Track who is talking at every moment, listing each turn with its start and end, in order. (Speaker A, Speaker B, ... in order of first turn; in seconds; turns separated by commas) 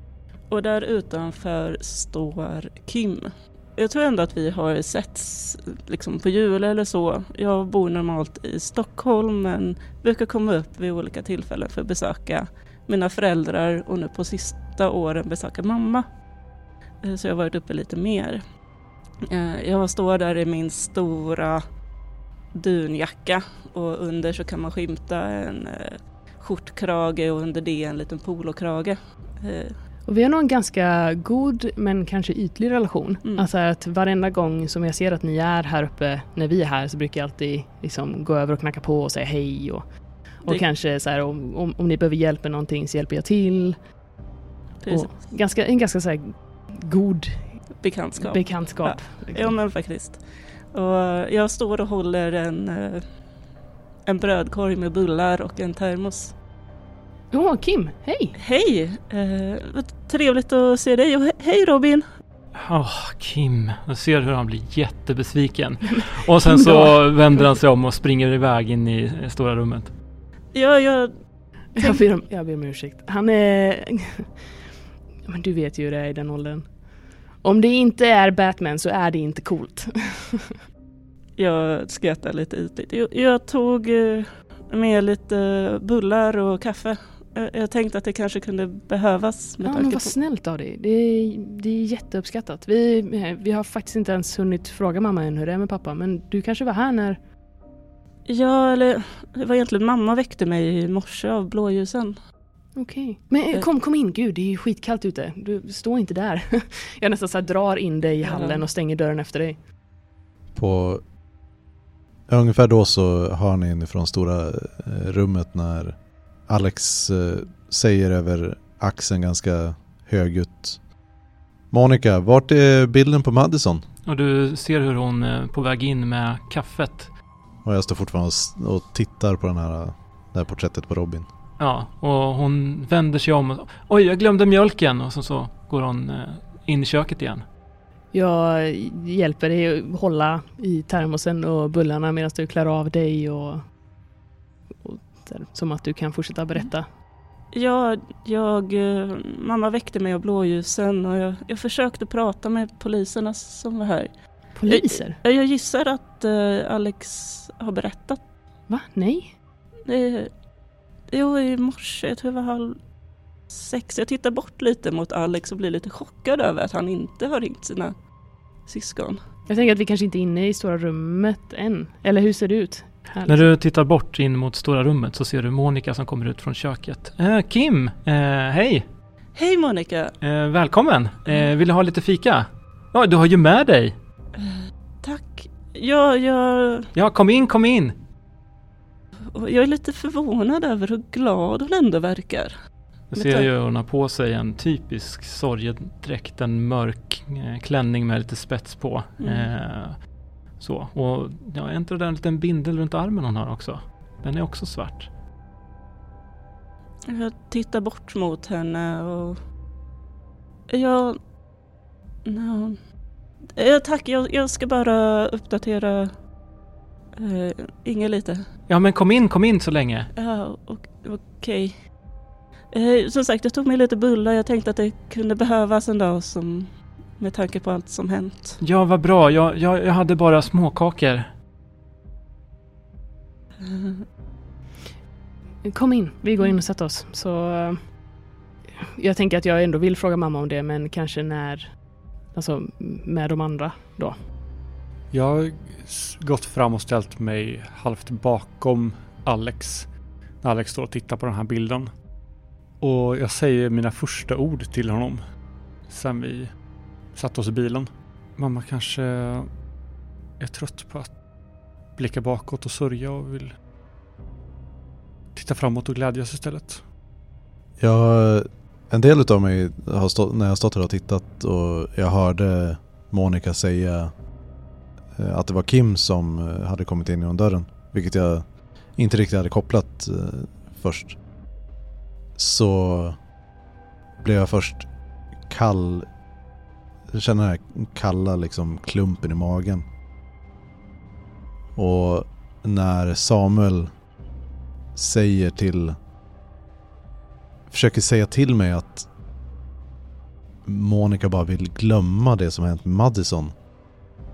Speaker A: 0.5-16.1, Speaker A: 17.0-18.4, Speaker A: 19.2-21.6, Speaker A: 22.5-29.7, Speaker B: 30.1-39.9, Speaker B: 40.4-43.8, Speaker A: 44.8-45.3, Speaker B: 44.9-49.5, Speaker A: 47.8-50.2, Speaker A: 50.7-53.0, Speaker A: 54.0-56.4, Speaker B: 57.3-58.4, Speaker A: 58.4-62.1, Speaker C: 62.6-69.9, Speaker B: 66.3-67.4, Speaker A: 70.5-71.1, Speaker B: 71.7-74.3, Speaker B: 75.2-76.7, Speaker B: 77.4-80.5, Speaker A: 81.4-90.1, Speaker B: 89.6-97.2, Speaker A: 98.2-102.2, Speaker B: 102.7-109.6, Speaker A: 108.2-108.6, Speaker D: 110.5-111.0, Speaker D: 112.3-116.0, Speaker D: 116.5-120.8, Speaker D: 121.7-123.8, Speaker C: 124.0-127.1, Speaker D: 127.6-131.2, Speaker C: 131.6-137.4, Speaker B: 138.1-143.7, Speaker B: 144.8-146.9, Speaker A: 147.5-158.2, Speaker B: 154.5-155.2, Speaker B: 158.7-159.3, Speaker A: 159.8-160.3, Speaker A: 161.1-162.8, Speaker A: 163.5-167.9, Speaker A: 168.7-169.2, Speaker B: 169.5-173.5, Speaker C: 173.2-178.8, Speaker A: 179.3-180.1, Speaker C: 180.2-183.9, Speaker A: 184.3-186.9, Speaker C: 186.9-187.9, Speaker A: 189.3-192.5, Speaker C: 193.1-205.1, Speaker B: 193.2-193.5, Speaker A: 199.2-199.5, Speaker A: 207.1-209.4, Speaker A: 210.7-211.2, Speaker A: 212.2-212.8, Speaker A: 213.5-216.2, Speaker A: 217.2-218.5, Speaker C: 218.7-220.1, Speaker A: 220.1-221.9, Speaker A: 222.7-228.6, Speaker C: 228.6-231.3, Speaker A: 233.6-234.0, Speaker B: 235.6-237.9, Speaker B: 238.8-241.8, Speaker B: 242.3-244.2, Speaker E: 245.1-249.9, Speaker E: 250.4-251.9, Speaker E: 252.8-255.2, Speaker E: 255.9-256.5, Speaker E: 257.1-259.6, Speaker E: 260.4-261.2, Speaker E: 261.9-263.5, Speaker E: 265.3-266.8, Speaker D: 267.8-274.1, Speaker D: 275.1-281.2, Speaker D: 282.4-283.2, Speaker D: 284.2-284.9, Speaker D: 285.5-286.1, Speaker D: 287.1-289.9, Speaker D: 291.7-293.9, Speaker D: 294.9-296.0, Speaker D: 297.7-299.1, Speaker D: 300.6-303.5